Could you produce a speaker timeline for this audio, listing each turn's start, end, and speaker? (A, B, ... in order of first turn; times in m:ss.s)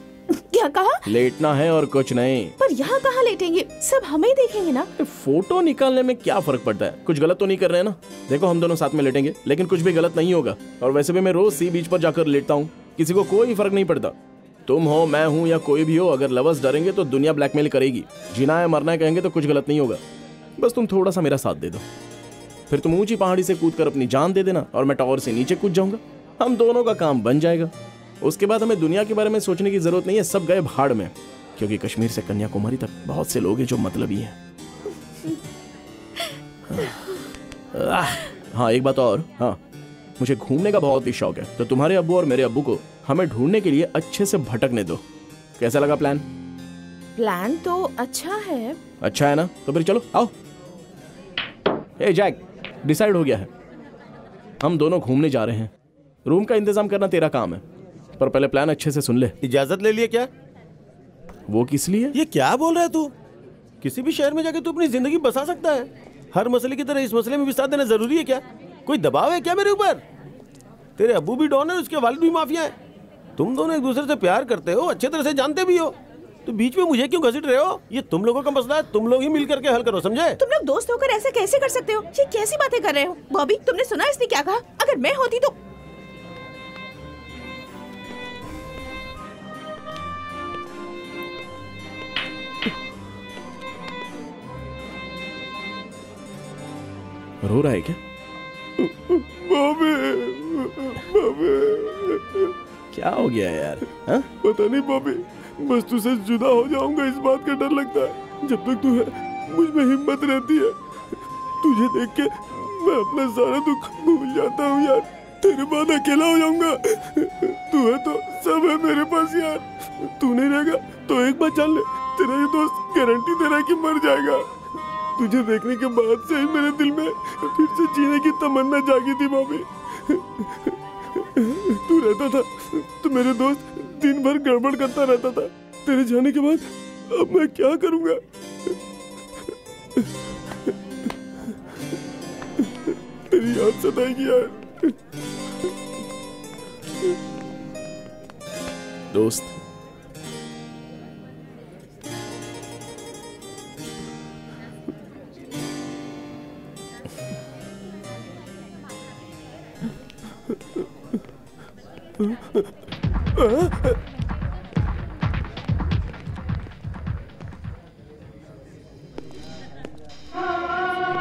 0:00.3-0:01.0 A
0:01.0-0:02.6 B
0:02.6-0:04.9 A
0:05.0-0:14.1 B
0:14.7-0:20.0 B
0:20.6-0:21.8 B
0:22.7-0:34.4 B
0:36.7-0:37.1 B
0:37.7-0:39.6 B
0:40.2-0:45.0 B
0:45.6-0:46.2 B
0:47.2-0:48.8 A
0:49.0-0:50.3 B
0:52.0-0:53.5 B
0:54.6-0:55.7 B
0:56.2-0:57.6 B
0:58.2-0:59.3 B
0:59.4-1:00.3 C
1:01.5-1:02.2 B
1:02.1-1:03.1 C
1:03.8-1:10.0 C
1:11.0-1:12.7 C
1:13.4-1:20.4 C
1:20.4-1:25.6 A
1:37.4-1:38.0 B
1:38.8-1:42.5 D
1:42.9-1:44.3 B
1:44.4-1:50.8 D
1:51.6-2:04.5 D
2:05.2-2:18.2 D
2:23.3-2:24.9 D
2:29.1-2:29.6 B